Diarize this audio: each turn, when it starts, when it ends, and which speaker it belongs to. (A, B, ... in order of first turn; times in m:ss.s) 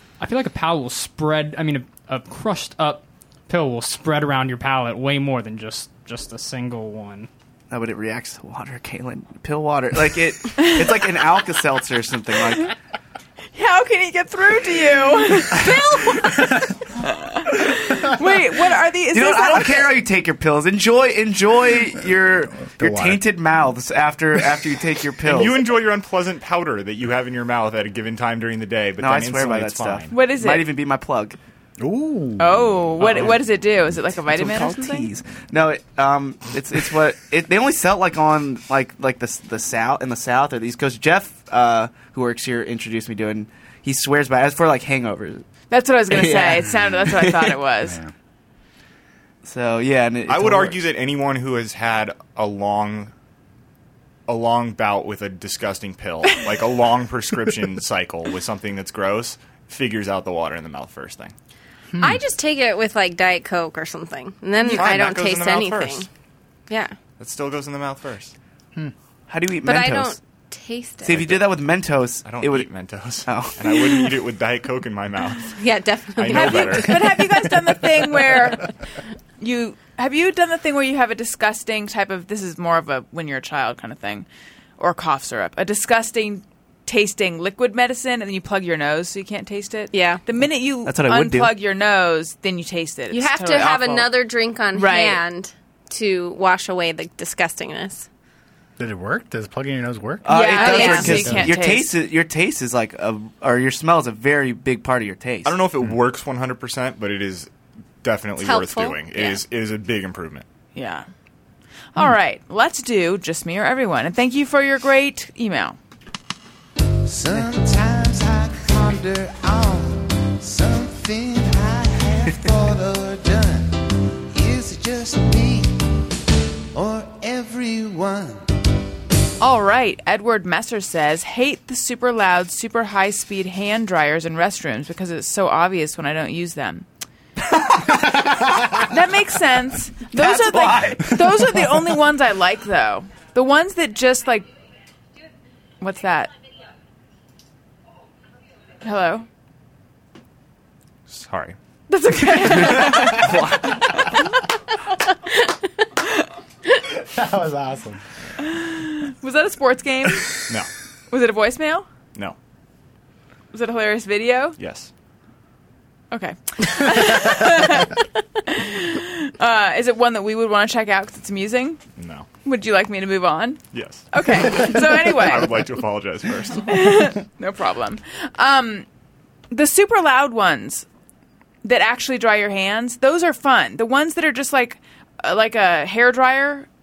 0:00.2-0:07.3 A
0:07.7-0:12.7 B
0:13.5-0:19.9 C
0:19.1-0:25.6 B
0:22.6-0:23.2 D
0:25.2-0:30.1 E
0:29.0-0:31.4 B
0:30.1-0:30.7 C
0:31.8-0:33.0 D
0:32.4-0:35.1 C
0:33.0-0:33.3 B
0:34.3-0:45.4 B
0:45.7-0:48.0 C
0:46.1-0:47.5 B
0:47.8-0:48.1 D
0:49.4-0:50.8 B
0:50.3-0:53.1 E
0:54.3-1:01.3 E
1:01.9-1:02.2 D
1:02.0-1:06.1 F
1:04.7-1:06.0 E
1:06.7-1:07.0 F
1:07.2-1:08.3 E
1:09.3-1:10.2 B
1:09.6-1:11.3 F
1:11.0-1:12.7 B
1:12.2-1:15.6 E
1:13.2-1:13.8 B
1:15.6-1:17.0 F
1:16.2-1:17.0 E
1:16.3-1:18.7 C
1:19.4-1:24.2 C
1:24.8-1:34.1 C
1:29.9-1:30.2 F
1:30.8-1:31.5 B
1:33.1-1:38.1 F
1:34.7-1:35.2 C
1:38.8-1:40.3 D
1:40.2-1:45.5 B
1:40.3-1:41.9 C
1:40.6-1:41.3 F
1:41.2-1:41.5 A
1:45.4-1:47.5 E
1:48.0-1:50.4 E
1:48.4-1:49.4 F
1:50.7-1:51.1 C
1:51.9-1:55.8 C
1:57.0-2:03.8 G
2:04.3-2:05.8 G
2:06.7-2:08.4 G
2:09.4-2:16.8 C
2:17.5-2:17.9 B
2:18.8-2:24.5 C
2:20.1-2:21.2 B
2:25.8-2:26.3 C
2:28.8-2:29.3 C
2:31.1-2:31.6 E
2:31.9-2:33.4 C
2:32.6-2:33.6 B
2:37.1-2:38.0 D
2:38.4-2:40.3 C
2:41.1-2:41.8 C
2:43.5-2:44.6 C
2:44.6-2:44.9 E
2:46.1-2:48.0 C
2:48.5-2:51.8 C
2:52.0-2:52.3 E
2:52.4-2:53.6 C
2:53.7-2:56.8 E
2:54.1-2:55.5 C
2:56.7-2:58.8 C
2:59.5-3:00.8 C
3:01.6-3:06.7 C